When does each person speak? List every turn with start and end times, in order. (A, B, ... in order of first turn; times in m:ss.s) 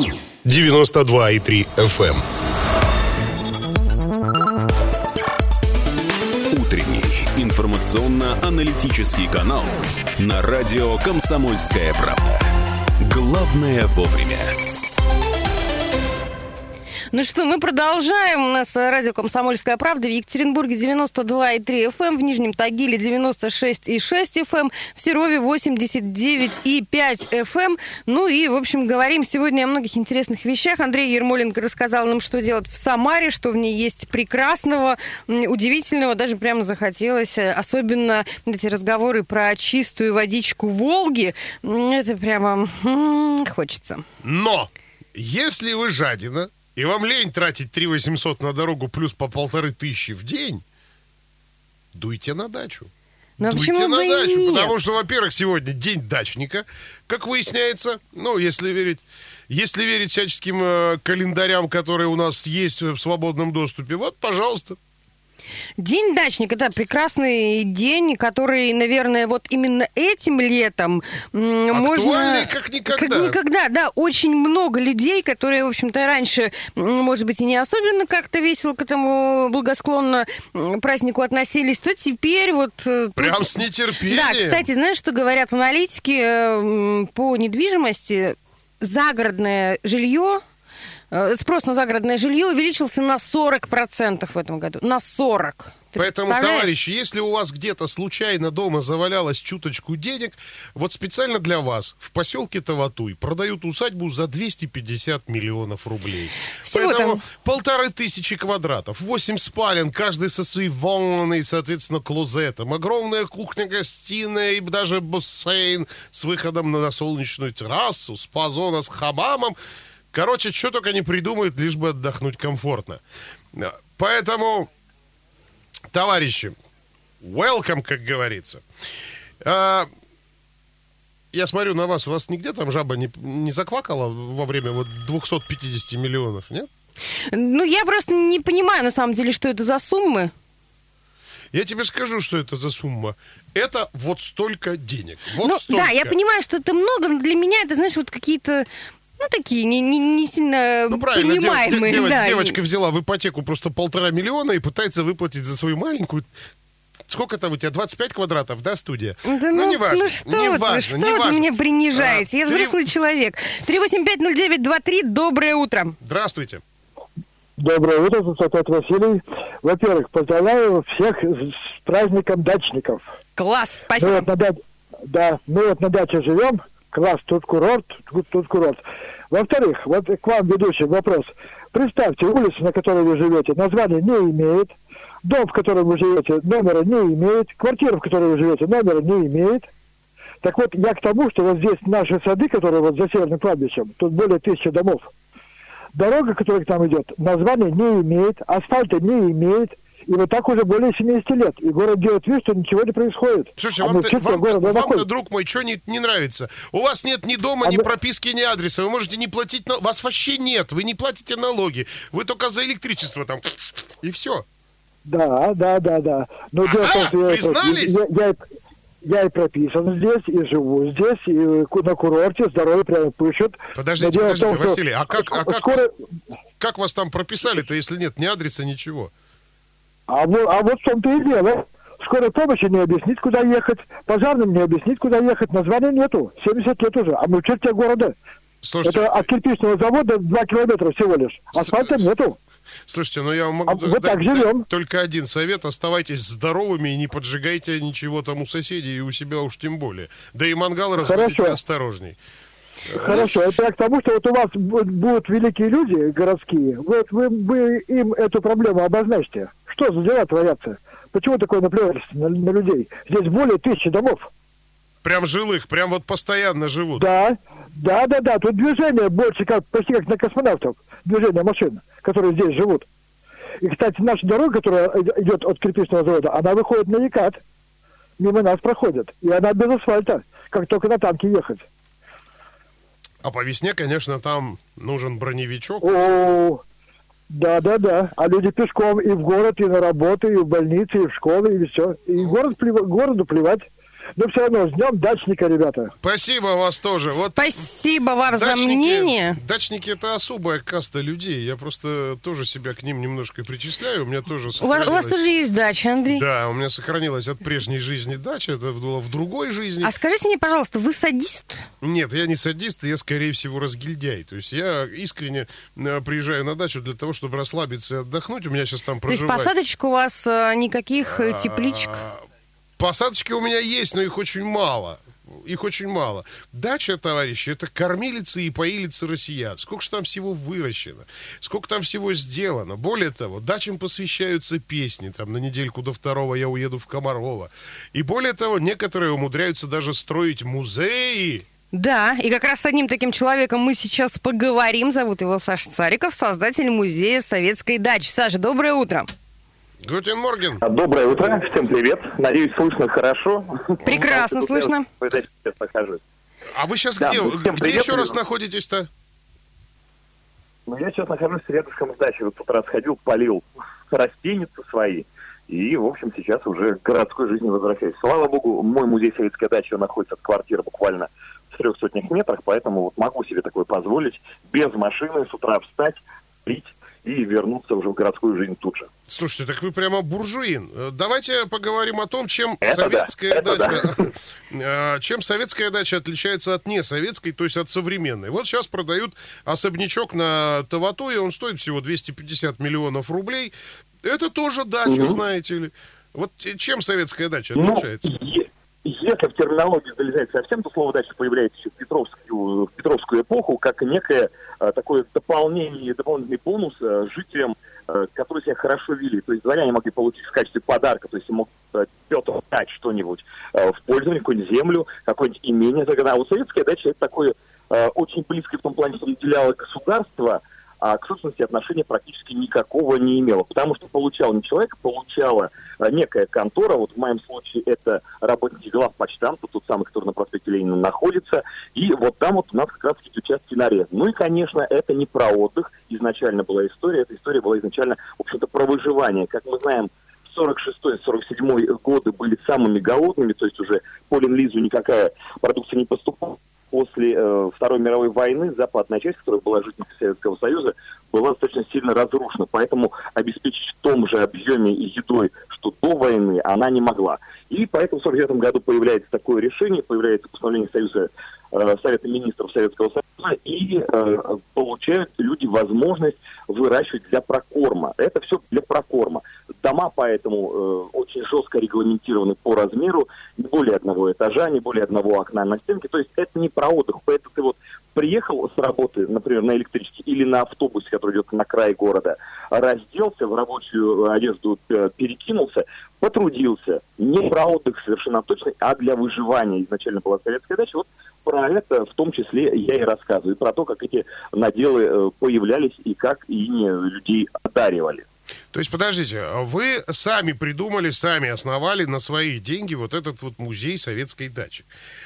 0:00.4-0:02.2 A
0:06.6-0:09.7 B
0:10.2-0:12.3 B
0:13.1-0:14.4 B
0:17.1-0:44.0 C
0:44.2-0:50.6 A
0:51.9-0:52.9 A
0:53.4-0:54.7 C
0:53.4-1:04.8 A
1:05.8-1:30.4 C
1:11.7-1:13.4 A
1:23.2-1:24.6 A
1:31.1-1:36.8 C
1:36.0-1:59.6 A
1:46.5-1:47.2 C
2:00.1-2:03.0 A
2:03.5-2:04.7 A
2:05.9-2:06.5 A
2:07.2-2:08.6 A
2:09.4-2:09.9 A
2:11.3-2:16.7 A
2:17.3-2:20.3 C
2:21.5-2:26.2 A
2:25.4-2:28.7 C
2:29.2-2:32.6 C
2:30.9-2:36.3 A
2:37.1-2:42.8 A
2:39.2-2:46.0 C
2:46.0-2:46.6 A
2:47.6-2:53.0 D
2:53.4-2:54.3 C
2:54.0-3:09.7 D
3:10.4-3:15.1 D
3:15.9-3:25.1 D
3:23.6-3:34.4 A
3:35.0-3:38.4 D
3:36.6-3:38.0 A
3:39.0-3:45.9 D
3:43.7-3:45.8 A
3:46.6-3:49.1 A
3:50.1-3:58.1 D
3:58.6-3:59.3 A
3:58.8-4:02.4 D
4:01.6-4:02.0 A
4:02.9-4:12.2 A
4:03.7-4:04.7 D
4:11.0-4:11.6 D
4:12.9-4:13.6 A
4:13.0-4:24.3 D
4:25.0-4:27.1 A
4:27.0-4:32.8 D
4:33.6-4:37.4 D
4:38.2-4:41.6 D
4:43.2-4:46.0 A
4:45.8-4:46.6 D
4:47.3-4:53.6 D
4:54.2-4:55.9 D
4:56.0-4:57.6 A
4:57.1-4:59.4 C
4:58.3-5:05.2 A
5:04.6-5:06.2 C
5:06.1-5:09.9 A
5:09.8-5:11.6 C
5:11.8-5:19.5 A
5:19.1-5:22.0 C
5:21.0-5:22.2 A
5:22.8-5:41.4 A
5:41.7-5:49.1 C
5:49.8-5:50.6 A
5:50.6-5:56.0 E
5:53.8-5:54.8 C
5:56.6-5:58.9 A
5:57.0-5:58.2 E
6:00.7-6:18.9 E
6:19.1-6:38.1 A
6:22.6-6:24.1 E
6:34.8-6:35.2 E
6:37.5-8:18.0 E
8:18.5-8:24.7 A